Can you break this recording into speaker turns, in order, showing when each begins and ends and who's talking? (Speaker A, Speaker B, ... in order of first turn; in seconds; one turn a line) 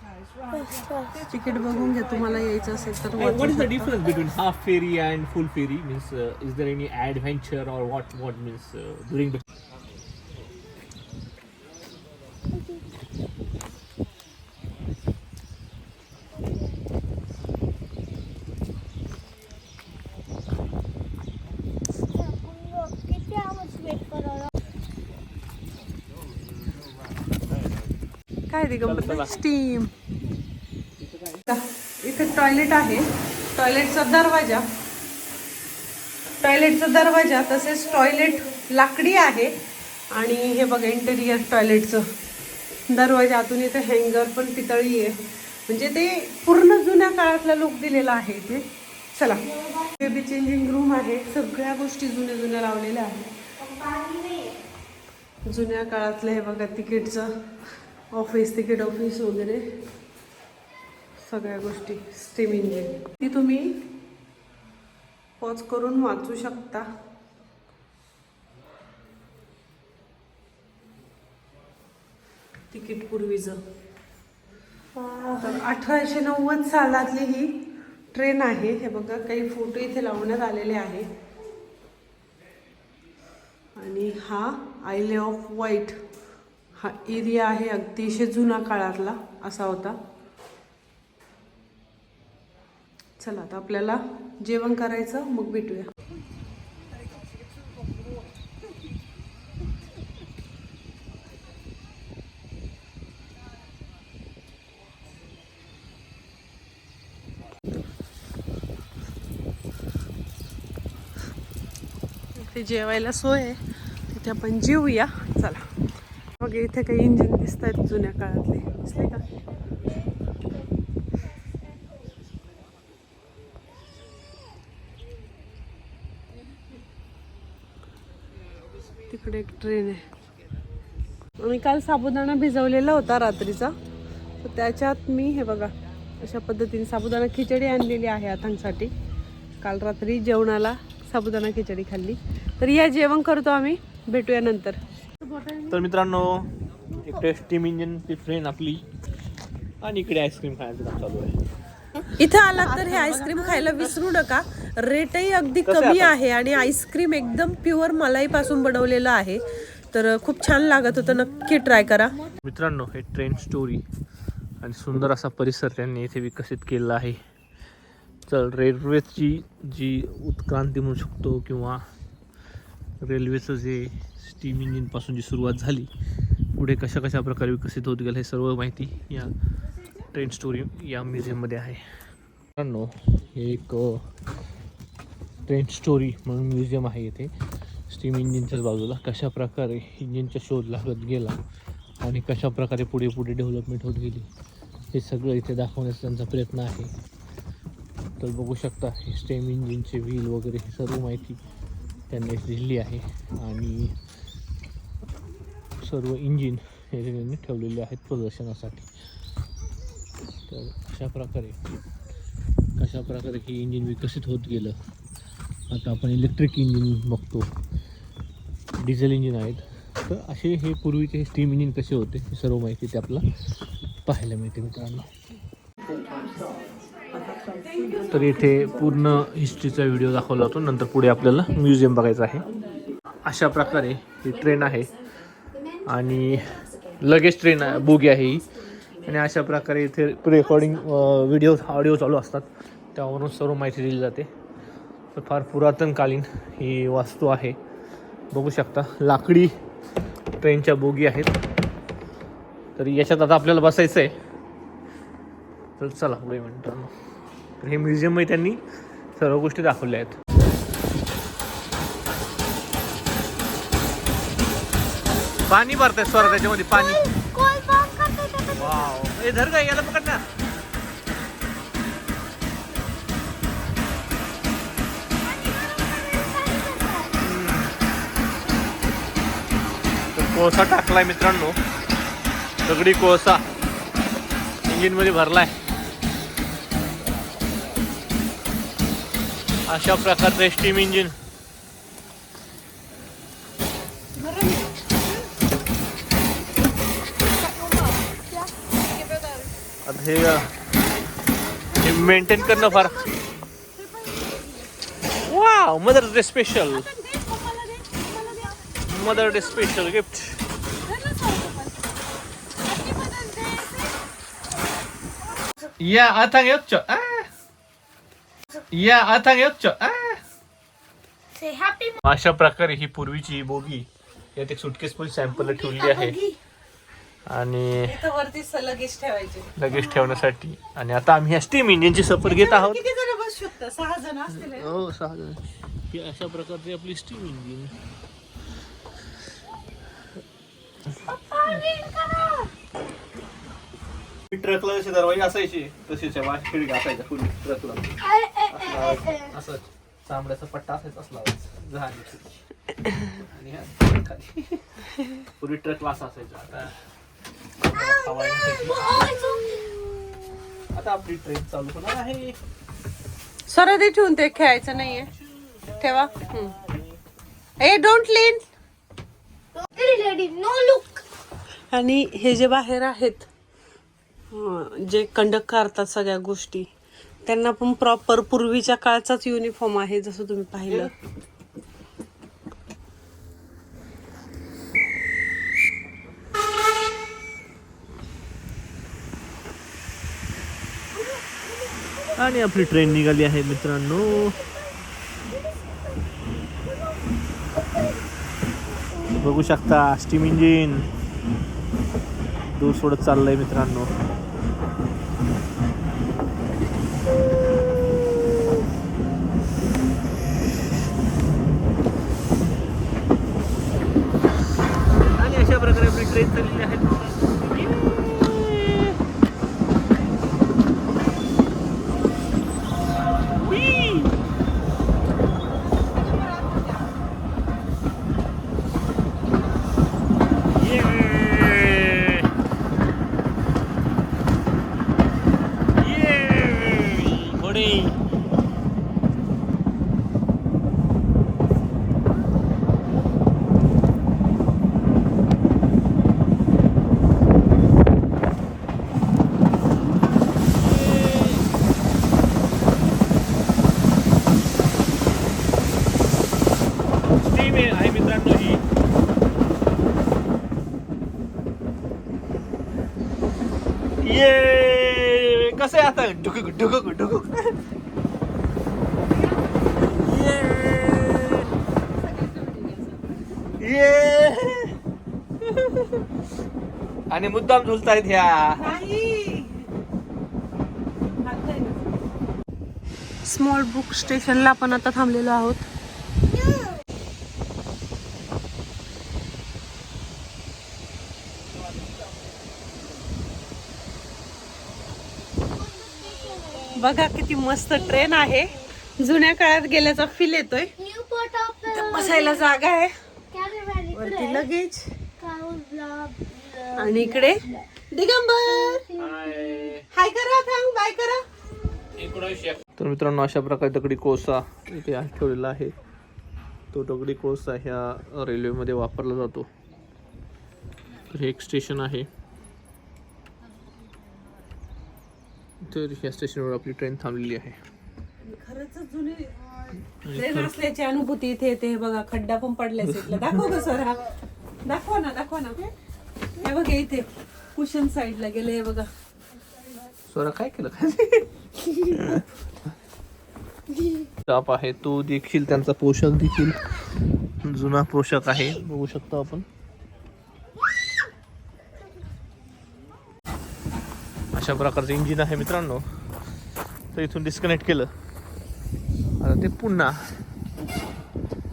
Speaker A: 0.5-1.2
Speaker B: 1.2-4.0
Speaker C: 3.1-9.4
Speaker A: 22.1-24.5
Speaker B: 28.5-29.9
Speaker C: 28.8-29.4
Speaker C: 31.0-31.3
Speaker B: 31.5-33.0
Speaker B: 33.5-34.6
Speaker B: 36.4-39.5
Speaker B: 40.1-42.0
Speaker B: 42.9-45.1
Speaker B: 45.7-53.4
Speaker A: 53.6-54.5
Speaker B: 55.5-57.3
Speaker B: 58.1-59.6
Speaker B: 61.2-63.8
Speaker B: 65.4-66.8
Speaker B: 72.7-73.6
Speaker B: 75.0-77.5
Speaker B: 78.1-81.1
Speaker B: 83.8-86.0
Speaker B: 86.8-90.0
Speaker B: 93.2-95.9
Speaker B: 112.3-113.6
Speaker B: 114.1-115.7
Speaker B: 116.4-119.2
Speaker B: 129.1-130.1
Speaker B: 131.4-133.7
Speaker B: 134.4-138.9
Speaker B: 139.6-144.8
Speaker A: 145.2-145.7
Speaker C: 145.7-148.9
Speaker C: 149.8-151.4
Speaker B: 152.1-159.4
Speaker A: 153.0-153.7
Speaker C: 155.7-156.2
Speaker B: 159.9-162.2
Speaker C: 162.4-163.8
Speaker C: 164.6-167.2
Speaker C: 168.3-171.8
Speaker C: 173.0-175.9
Speaker C: 176.6-179.3
Speaker C: 180.1-181.8
Speaker C: 182.6-184.1
Speaker C: 185.4-187.3
Speaker C: 187.9-191.4
Speaker C: 192.0-194.3
Speaker C: 194.9-196.9
Speaker C: 198.2-201.4
Speaker C: 202.1-203.9
Speaker C: 205.8-208.9
Speaker C: 210.5-211.6
Speaker C: 212.8-214.8
Speaker C: 215.7-217.5
Speaker C: 218.8-223.2
Speaker C: 224.1-225.1
Speaker B: 227.6-228.1
Speaker C: 228.0-232.5
Speaker C: 233.2-234.9
Speaker C: 235.8-238.4
Speaker C: 239.0-244.3
Speaker C: 245.1-247.6
Speaker C: 248.3-249.5
Speaker C: 250.4-251.3
Speaker C: 252.8-254.2
Speaker C: 255.8-256.9
Speaker C: 257.6-258.6
Speaker C: 259.1-260.1
Speaker C: 265.4-267.1
Speaker A: 266.0-269.0
Speaker C: 268.5-270.2
Speaker A: 275.2-277.2
Speaker C: 277.2-277.7
Speaker C: 280.1-281.6
Speaker C: 282.6-283.4
Speaker C: 284.6-285.5
Speaker C: 289.6-291.1
Speaker B: 294.1-294.9
Speaker B: 297.5-297.9
Speaker B: 298.9-299.4
Speaker C: 299.8-300.5
Speaker C: 301.7-303.1
Speaker B: 301.8-303.1
Speaker B: 303.8-304.6
Speaker C: 305.2-306.9
Speaker B: 306.7-309.8
Speaker C: 308.9-310.4
Speaker B: 310.8-311.9
Speaker B: 312.6-313.9
Speaker C: 315.8-317.3
Speaker C: 318.7-320.2
Speaker A: 321.3-322.0
Speaker C: 322.0-326.2
Speaker A: 325.3-326.4
Speaker C: 327.3-327.9
Speaker B: 327.8-329.6
Speaker C: 329.6-332.8
Speaker B: 332.2-334.7
Speaker C: 334.3-337.8
Speaker A: 341.1-342.5
Speaker C: 344.3-347.9
Speaker A: 348.0-349.3
Speaker C: 348.5-352.4
Speaker C: 353.1-354.6
Speaker C: 355.4-356.8
Speaker C: 357.6-359.1
Speaker A: 357.7-360.4
Speaker C: 360.7-362.4
Speaker B: 363.5-365.1
Speaker B: 365.8-366.5
Speaker B: 367.6-368.4
Speaker A: 369.7-371.0
Speaker B: 371.7-373.3
Speaker B: 374.3-376.7
Speaker B: 377.2-380.9
Speaker C: 392.1-394.4
Speaker C: 399.1-400.9
Speaker C: 402.5-403.9
Speaker C: 415.1-419.0
Speaker C: 423.3-424.2
Speaker B: 425.8-426.8
Speaker C: 430.5-432.3
Speaker C: 435.8-438.0
Speaker C: 450.7-451.4
Speaker C: 457.2-458.6
Speaker C: 464.0-467.6
Speaker B: 469.1-469.9
Speaker C: 469.9-471.5
Speaker B: 471.9-473.3
Speaker C: 473.6-474.7
Speaker C: 475.4-476.0
Speaker C: 477.1-478.8
Speaker B: 478.5-479.7
Speaker B: 481.2-481.8
Speaker B: 483.2-485.6
Speaker A: 495.6-496.8
Speaker B: 496.7-500.7
Speaker A: 500.8-502.4
Speaker B: 501.7-502.9
Speaker A: 503.3-504.4
Speaker B: 503.9-504.9
Speaker A: 505.2-507.5
Speaker B: 506.8-508.9
Speaker A: 508.6-509.8
Speaker C: 509.0-509.9
Speaker B: 509.9-511.2
Speaker C: 512.0-515.8
Speaker C: 516.7-519.5
Speaker C: 521.1-522.1
Speaker C: 525.6-527.6
Speaker B: 528.2-529.5
Speaker C: 530.0-530.5
Speaker B: 530.1-534.0
Speaker C: 532.8-533.5
Speaker B: 534.6-535.7
Speaker B: 536.4-538.9
Speaker C: 540.1-542.2
Speaker C: 544.2-546.6
Speaker C: 547.4-549.5
Speaker C: 554.3-555.8
Speaker C: 556.9-557.9
Speaker C: 559.2-560.0